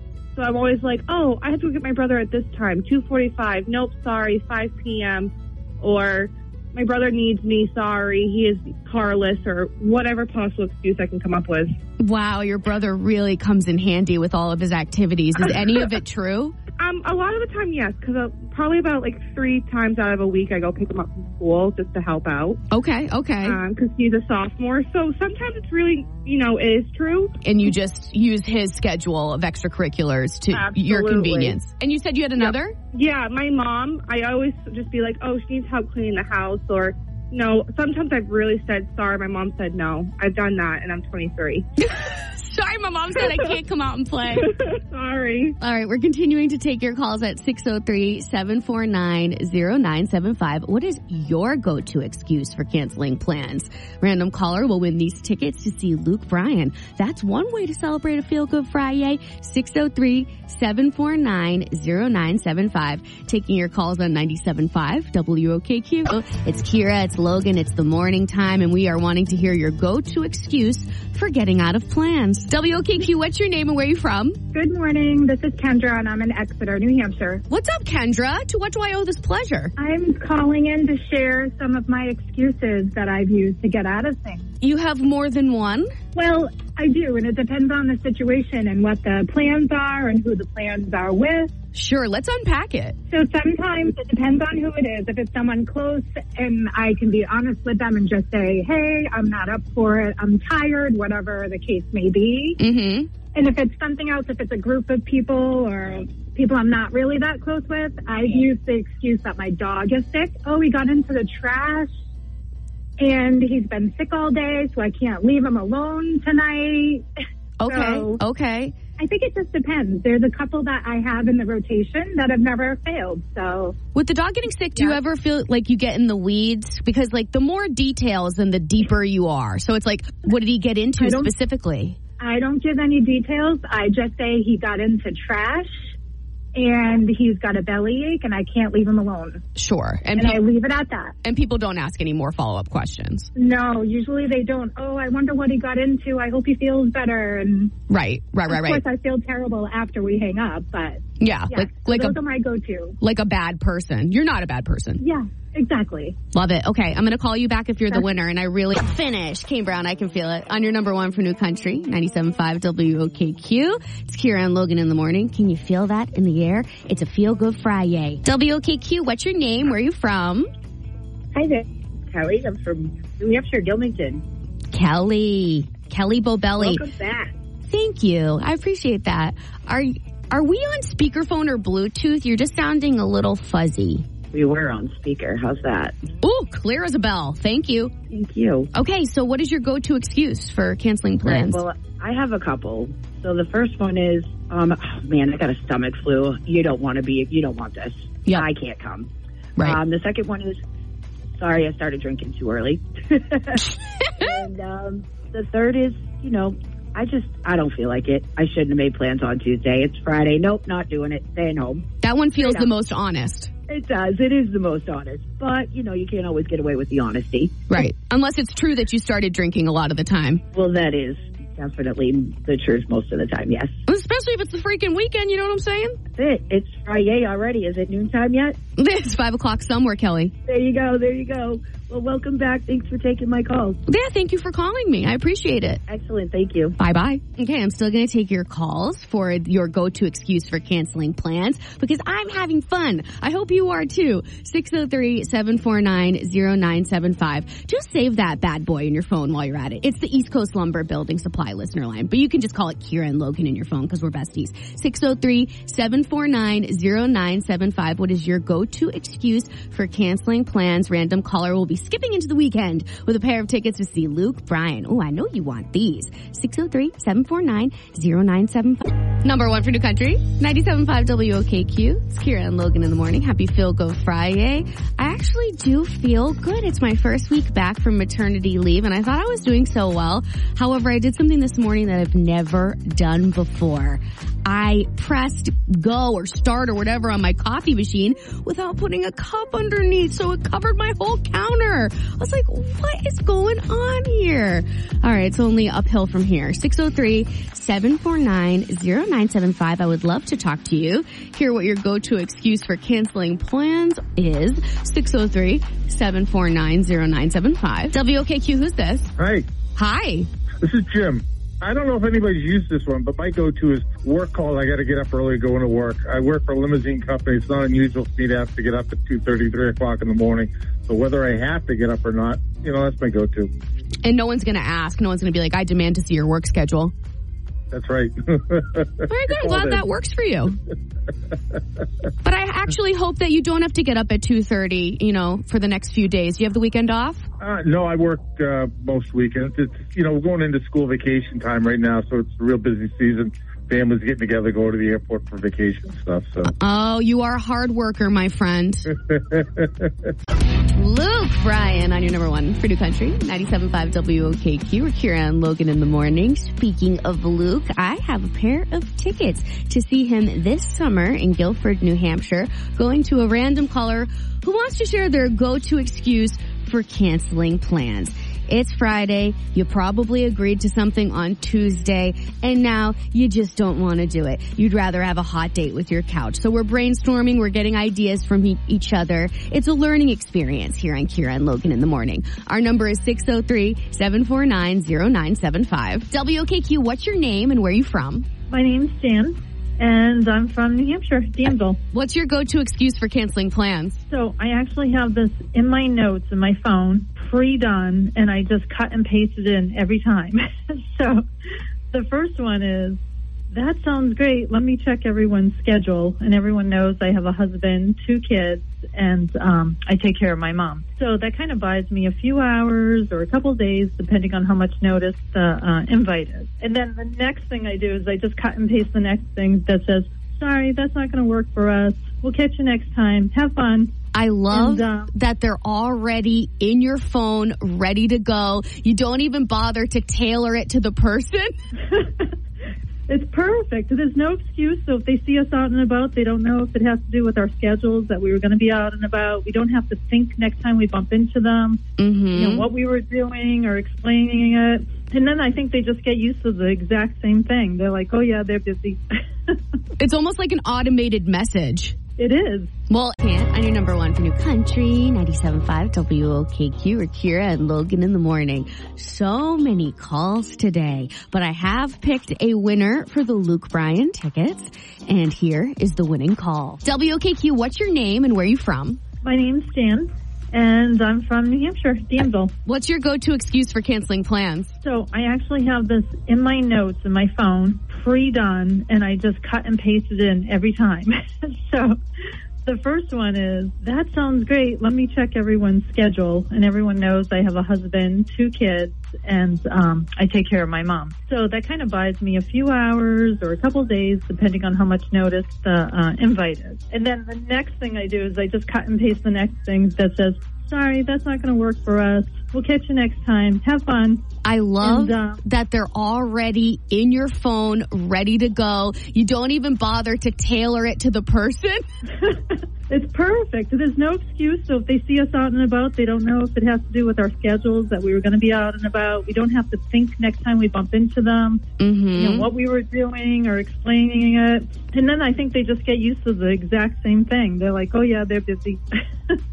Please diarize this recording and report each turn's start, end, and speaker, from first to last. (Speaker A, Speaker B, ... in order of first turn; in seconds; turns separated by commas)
Speaker A: 0.3-11.7, Speaker B: 12.0-16.5, Speaker A: 16.8-22.6, Speaker B: 22.7-23.6, Speaker A: 23.4-27.3, Speaker B: 27.4-32.7, Speaker A: 30.5-31.6, Speaker A: 32.4-41.7, Speaker B: 41.8-44.5, Speaker A: 44.6-45.6, Speaker B: 45.6-74.4, Speaker C: 74.5-77.4, Speaker B: 77.5-79.7, Speaker C: 79.8-84.5, Speaker B: 84.6-85.9, Speaker C: 86.1-91.5, Speaker B: 91.7-93.0, Speaker C: 93.1-102.6, Speaker B: 102.6-103.1, Speaker C: 103.3-111.9, Speaker C: 113.0-117.0, Speaker B: 117.6-118.7, Speaker C: 117.7-118.2, Speaker C: 119.0-123.8, Speaker B: 123.9-132.0, Speaker C: 131.0-131.3, Speaker C: 132.2-135.9, Speaker C: 136.5-139.4, Speaker B: 139.6-140.4, Speaker C: 140.2-141.1, Speaker B: 141.2-143.3, Speaker C: 143.3-147.7, Speaker B: 147.9-148.8, Speaker C: 148.5-152.9, Speaker B: 151.2-152.2, Speaker B: 153.0-155.0, Speaker C: 155.0-156.2, Speaker B: 156.3-170.5, Speaker D: 172.1-174.2, Speaker B: 174.7-176.8, Speaker D: 176.6-177.3, Speaker B: 177.7-184.0, Speaker D: 184.3-185.9, Speaker B: 186.2-187.9, Speaker D: 188.1-188.7, Speaker B: 188.7-191.6, Speaker D: 191.2-200.6, Speaker D: 201.4-203.6, Speaker D: 204.2-211.8, Speaker B: 212.0-213.5, Speaker D: 212.4-212.7, Speaker D: 213.7-217.7, Speaker B: 217.7-220.4, Speaker D: 220.5-223.8, Speaker B: 223.9-226.0, Speaker D: 226.2-228.6, Speaker B: 228.8-230.3, Speaker D: 230.5-233.8, Speaker B: 233.9-235.8, Speaker D: 235.9-236.8, Speaker B: 236.8-309.1, Speaker E: 309.2-309.4, Speaker B: 309.8-310.3, Speaker E: 310.6-323.5, Speaker B: 324.0-326.9, Speaker E: 327.7-329.8, Speaker B: 329.1-330.6, Speaker B: 332.2-337.3, Speaker E: 337.4-346.5, Speaker B: 346.4-348.9, Speaker E: 348.9-349.9, Speaker B: 350.7-388.3, Speaker F: 388.5-391.8, Speaker B: 391.9-394.0, Speaker F: 394.1-401.2, Speaker F: 401.9-403.0, Speaker F: 403.5-423.9, Speaker B: 424.1-431.5, Speaker F: 424.5-425.1, Speaker F: 431.8-432.3, Speaker F: 433.1-449.6, Speaker B: 442.0-442.7, Speaker B: 450.0-452.0, Speaker F: 452.2-452.7, Speaker B: 452.9-469.0, Speaker F: 469.2-472.5, Speaker B: 472.6-474.7, Speaker F: 474.8-482.0, Speaker F: 482.6-504.2, Speaker B: 504.4-511.8, Speaker F: 504.8-505.4, Speaker F: 512.2-521.6, Speaker B: 521.8-522.5, Speaker F: 522.1-529.4